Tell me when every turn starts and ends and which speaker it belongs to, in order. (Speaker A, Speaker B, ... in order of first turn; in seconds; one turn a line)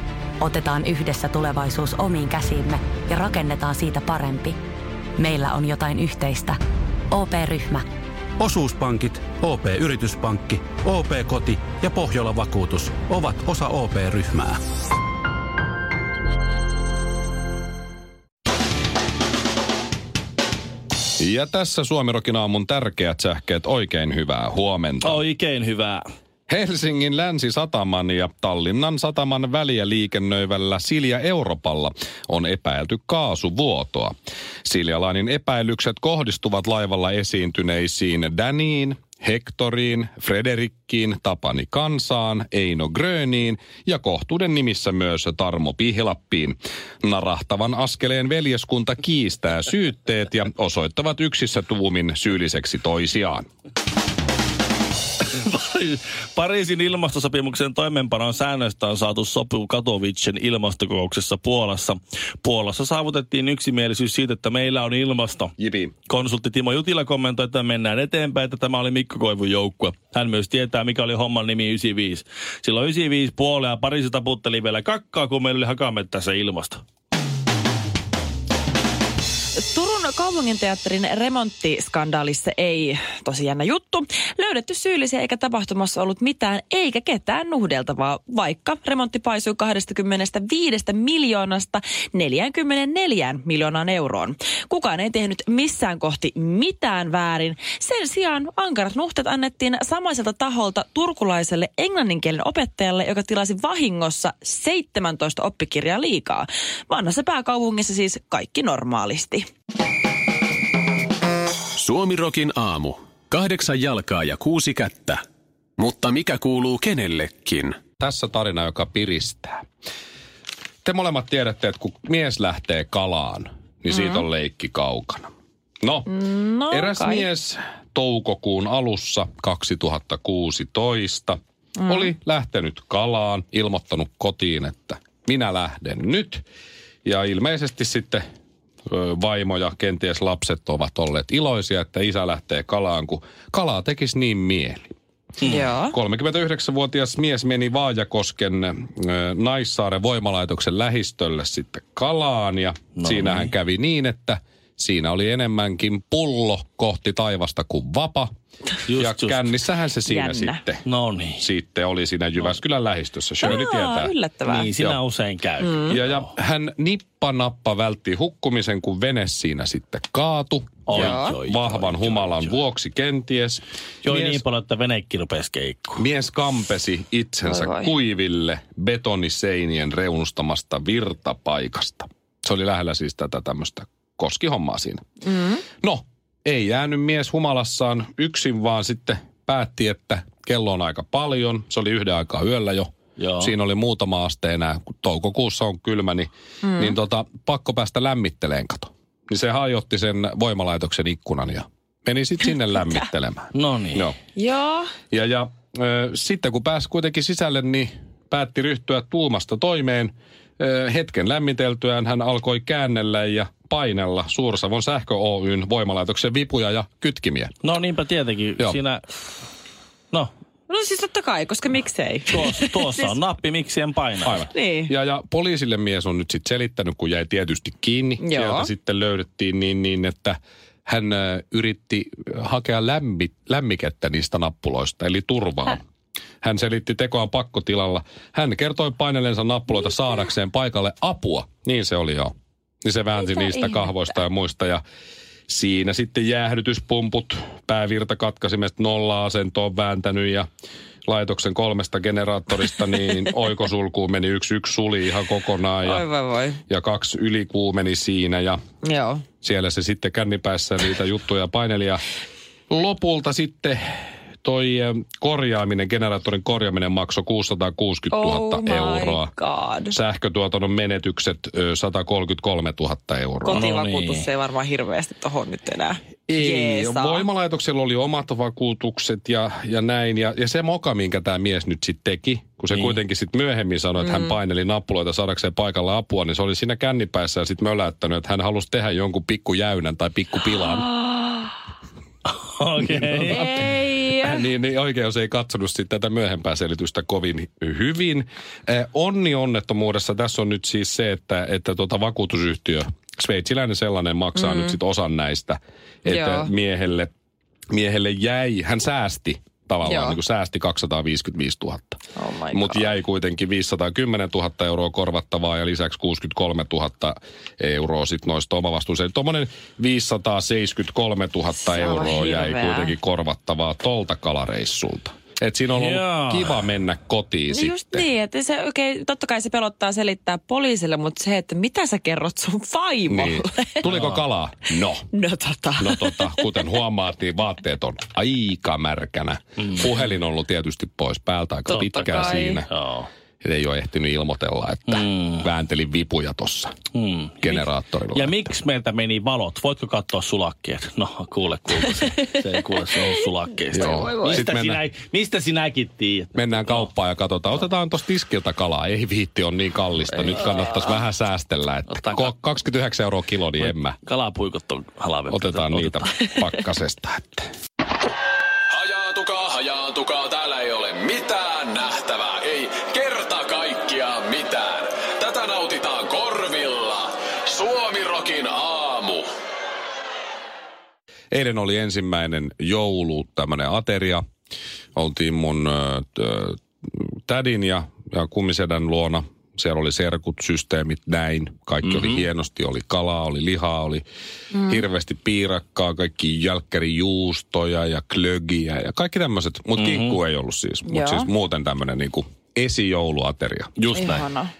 Speaker A: 0.4-4.6
Speaker A: 5.2-6.6
Speaker A: 7.1-7.9
Speaker B: 8.4-14.6
Speaker C: 21.2-25.2
Speaker D: 25.0-26.0
Speaker C: 26.5-34.1
Speaker C: 34.6-53.5
Speaker D: 55.2-65.5
Speaker C: 65.6-65.9
Speaker D: 66.1-76.8
Speaker E: 79.5-109.5
Speaker F: 111.8-115.2
Speaker F: 115.8-117.8
Speaker C: 118.0-119.6
Speaker C: 120.8-125.3
Speaker E: 123.9-124.2
Speaker C: 125.8-126.1
Speaker E: 126.1-127.3
Speaker C: 126.7-136.4
Speaker E: 131.8-132.1
Speaker C: 137.1-138.2
Speaker C: 138.9-144.9
Speaker E: 145.4-146.0
Speaker C: 145.9-158.3
Speaker D: 153.0-153.5
Speaker D: 158.9-159.6
Speaker C: 159.0-160.9
Speaker E: 160.1-160.6
Speaker D: 160.8-161.4
Speaker C: 161.4-164.1
Speaker E: 163.4-164.7
Speaker D: 164.5-166.3
Speaker E: 165.6-165.9
Speaker C: 165.8-174.4
Speaker D: 170.9-172.6
Speaker E: 170.9-171.4
Speaker D: 174.0-176.0
Speaker C: 176.0-185.0
Speaker E: 177.4-177.9
Speaker E: 185.2-185.6
Speaker C: 185.8-204.2
Speaker D: 193.2-193.5
Speaker E: 196.6-197.0
Speaker D: 203.5-204.1
Speaker E: 204.4-204.9
Speaker C: 205.1-217.6
Speaker D: 217.6-219.1
Speaker E: 220.7-223.2
Speaker D: 222.3-224.5
Speaker C: 224.2-235.8
Speaker E: 224.4-224.9
Speaker E: 228.2-228.7
Speaker C: 236.4-242.3
Speaker C: 242.8-244.8
Speaker E: 243.1-243.9
Speaker C: 245.5-250.4
Speaker C: 251.1-256.1
Speaker E: 255.8-256.6
Speaker C: 256.7-258.6
Speaker E: 258.8-259.2
Speaker C: 259.4-262.0
Speaker C: 262.7-269.3
Speaker E: 268.1-269.9
Speaker C: 269.9-273.6
Speaker E: 273.4-277.2
Speaker D: 273.5-274.3
Speaker C: 276.3-290.9
Speaker D: 282.7-283.0
Speaker E: 284.0-284.4
Speaker E: 290.9-291.5
Speaker D: 292.3-293.6
Speaker C: 293.2-307.1
Speaker E: 293.3-294.4
Speaker E: 304.4-304.8
Speaker E: 306.1-306.5
Speaker C: 307.7-312.0
Speaker E: 309.8-310.2
Speaker E: 312.2-312.9
Speaker C: 312.5-328.1
Speaker E: 321.6-322.9
Speaker D: 325.7-326.7
Speaker E: 327.5-333.9
Speaker C: 333.1-335.1
Speaker D: 333.9-334.2
Speaker E: 335.1-336.8
Speaker C: 335.8-342.7
Speaker E: 341.7-342.6
Speaker D: 341.7-343.1
Speaker C: 343.4-346.8
Speaker D: 344.9-345.5
Speaker D: 346.9-356.9
Speaker C: 347.4-348.5
Speaker E: 352.9-354.4
Speaker C: 353.7-354.8
Speaker C: 356.4-364.0
Speaker D: 360.1-360.6
Speaker D: 361.9-362.3
Speaker D: 363.6-366.6
Speaker C: 365.3-367.5
Speaker F: 368.7-379.2
Speaker C: 381.3-384.2
Speaker C: 384.9-394.1
Speaker D: 391.8-392.3
Speaker E: 394.5-394.8
Speaker C: 394.6-404.2
Speaker D: 399.8-400.2
Speaker E: 400.9-401.3
Speaker E: 403.9-404.5